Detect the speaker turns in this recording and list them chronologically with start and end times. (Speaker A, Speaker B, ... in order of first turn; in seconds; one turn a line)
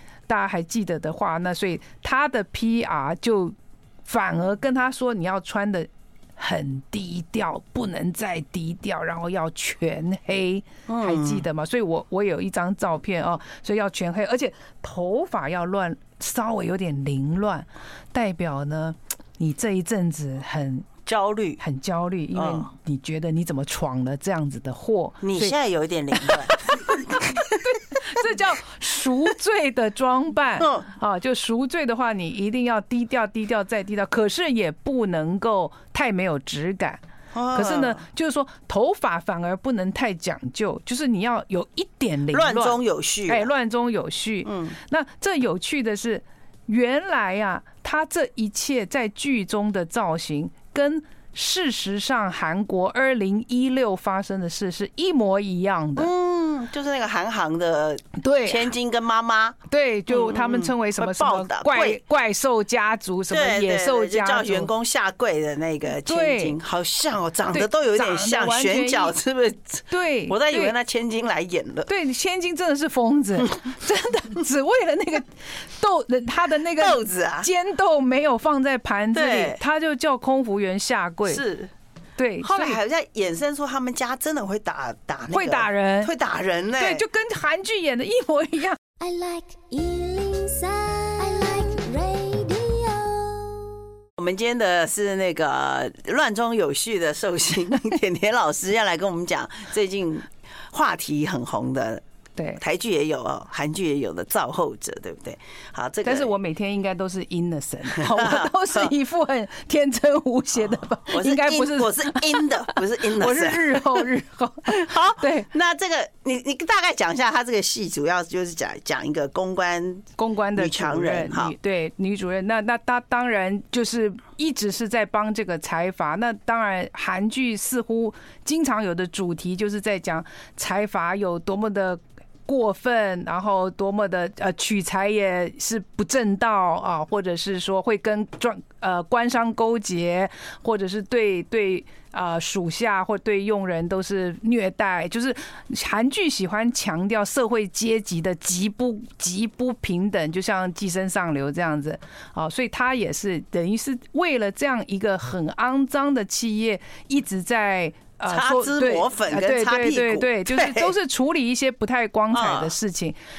Speaker A: 0.3-20.9
Speaker B: 10.9-11.4
Speaker B: 21.1-21.6
Speaker A: 21.6-25.6
Speaker B: 22.4-22.7
Speaker B: 25.2-28.2
Speaker A: 26.1-37.0
Speaker B: 30.6-30.9
Speaker B: 37.3-38.0
Speaker A: 37.5-56.1
Speaker B: 42.3-43.5
Speaker B: 44.5-44.8
Speaker B: 56.0-59.6
Speaker A: 58.2-58.7
Speaker A: 59.7-64.7
Speaker B: 60.1-62.0
Speaker B: 63.3-71.9
Speaker A: 66.0-66.6
Speaker A: 67.5-69.2
Speaker A: 69.9-70.7
Speaker A: 71.9-81.4
Speaker B: 76.8-77.5
Speaker B: 79.1-79.6
Speaker B: 81.3-81.7
Speaker A: 82.2-82.8
Speaker B: 82.4-87.0
Speaker A: 85.3-86.1
Speaker A: 86.8-88.8
Speaker C: 89.0-93.7
Speaker B: 94.2-102.0
Speaker B: 102.6-106.3
Speaker A: 106.0-115.5
Speaker B: 107.9-108.9
Speaker B: 111.1-114.1
Speaker B: 114.7-121.5
Speaker A: 120.2-163.2
Speaker B: 158.3-160.9
Speaker B: 162.3-162.8